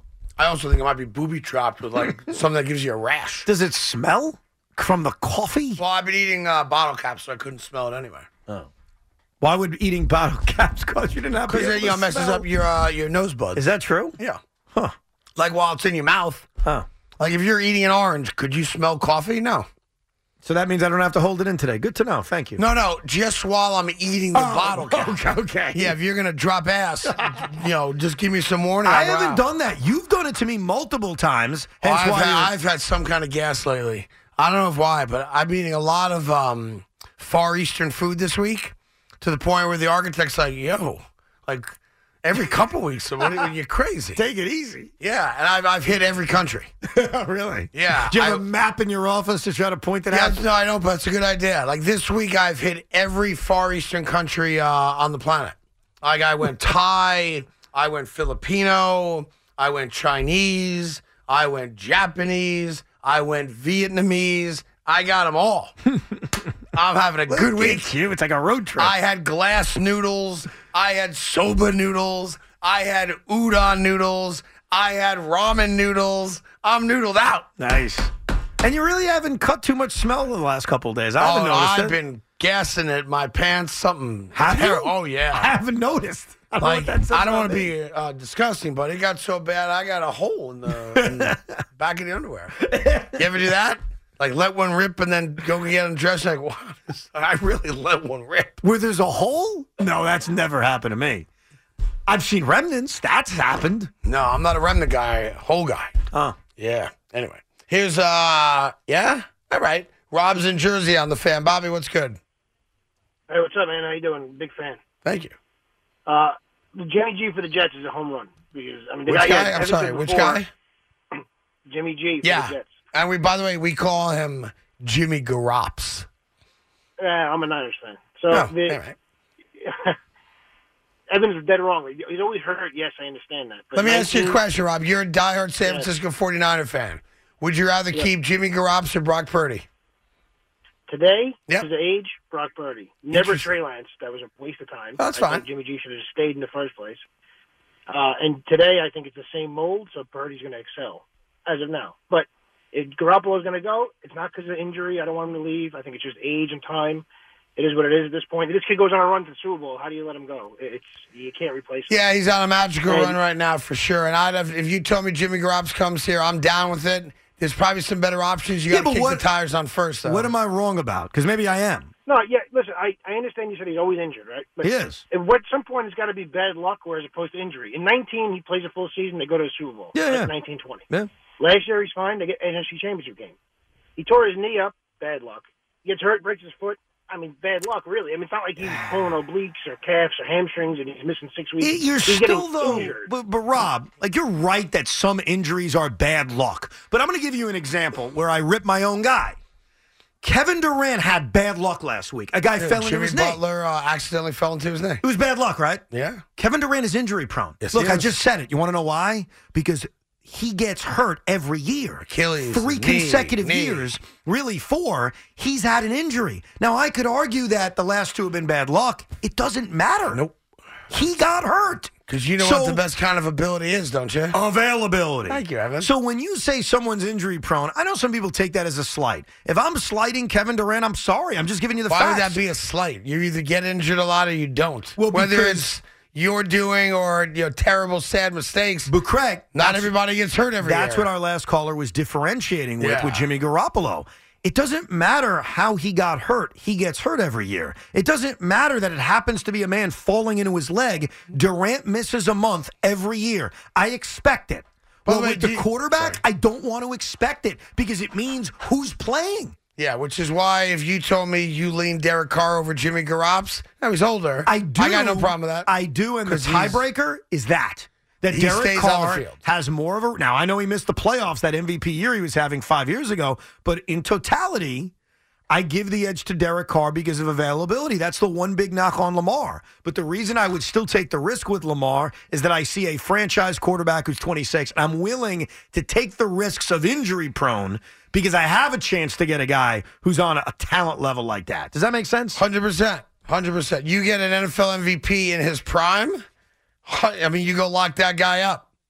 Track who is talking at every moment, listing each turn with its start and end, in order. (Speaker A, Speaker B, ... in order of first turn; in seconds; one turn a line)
Speaker A: 0.4-3.5
Speaker B: 3.5-5.8
Speaker A: 5.8-8.3
Speaker B: 9.4-12.5
Speaker A: 11.5-13.6
Speaker B: 13.5-14.2
Speaker A: 15.4-16.5
Speaker A: 17.2-19.7
Speaker B: 20.4-22.6
Speaker A: 22.6-25.2
Speaker B: 24.3-25.9
Speaker A: 25.7-29.4
Speaker B: 27.0-27.5
Speaker B: 28.8-32.5
Speaker A: 31.8-44.2
Speaker B: 44.1-44.9
Speaker A: 45.0-46.7
Speaker B: 46.9-50.4
Speaker A: 47.7-48.4
Speaker A: 50.1-65.8
Speaker B: 66.0-66.3
Speaker A: 66.7-67.9
Speaker B: 67.3-68.9
Speaker A: 68.8-77.5
Speaker B: 77.6-82.0
Speaker A: 81.2-85.5
Speaker B: 84.3-87.7
Speaker A: 86.6-92.6
Speaker B: 90.7-91.5
Speaker B: 92.6-93.3
Speaker A: 93.1-98.6
Speaker B: 98.6-101.3
Speaker B: 102.1-103.9
Speaker A: 104.0-105.9
Speaker B: 106.1-106.4
Speaker A: 106.5-112.2
Speaker C: 113.3-114.8
Speaker A: 115.0-115.3
Speaker C: 116.0-120.4
Speaker A: 119.1-120.5
Speaker C: 121.7-122.8
Speaker A: 122.2-126.1
Speaker C: 127.0-128.8
Speaker A: 128.6-128.9
Speaker C: 129.6-129.9
Speaker C: 131.1-134.4
Speaker A: 133.7-139.7
Speaker C: 140.9-147.0
Speaker A: 143.1-143.5
Speaker A: 145.0-145.4
Speaker C: 147.9-157.0
Speaker C: 157.6-161.9
Speaker A: 161.9-170.3
Speaker C: 162.8-163.2
Speaker B: 168.7-169.2
Speaker B: 170.0-171.9
Speaker C: 172.1-180.8
Speaker B: 174.6-175.0
Speaker B: 179.9-180.3
Speaker C: 181.4-183.3
Speaker C: 184.0-193.1
Speaker B: 188.6-189.1
Speaker B: 191.6-199.4
Speaker B: 200.2-203.4
Speaker A: 202.6-205.0
Speaker B: 205.0-205.8
Speaker A: 205.9-206.2
Speaker B: 206.4-220.2
Speaker A: 207.6-208.1
Speaker A: 212.1-213.8
Speaker B: 220.9-222.8
Speaker A: 222.1-224.3
Speaker B: 224.3-232.4
Speaker A: 225.3-225.9
Speaker A: 231.9-238.9
Speaker B: 235.0-235.7
Speaker B: 238.9-239.9
Speaker A: 239.5-241.1
Speaker B: 240.6-259.6
Speaker A: 242.8-243.2
Speaker A: 255.1-256.2
Speaker A: 259.8-265.7
Speaker B: 264.4-274.9
Speaker A: 266.2-266.8
Speaker A: 268.3-269.4
Speaker B: 275.5-292.4
Speaker A: 292.4-296.2
Speaker A: 296.9-298.6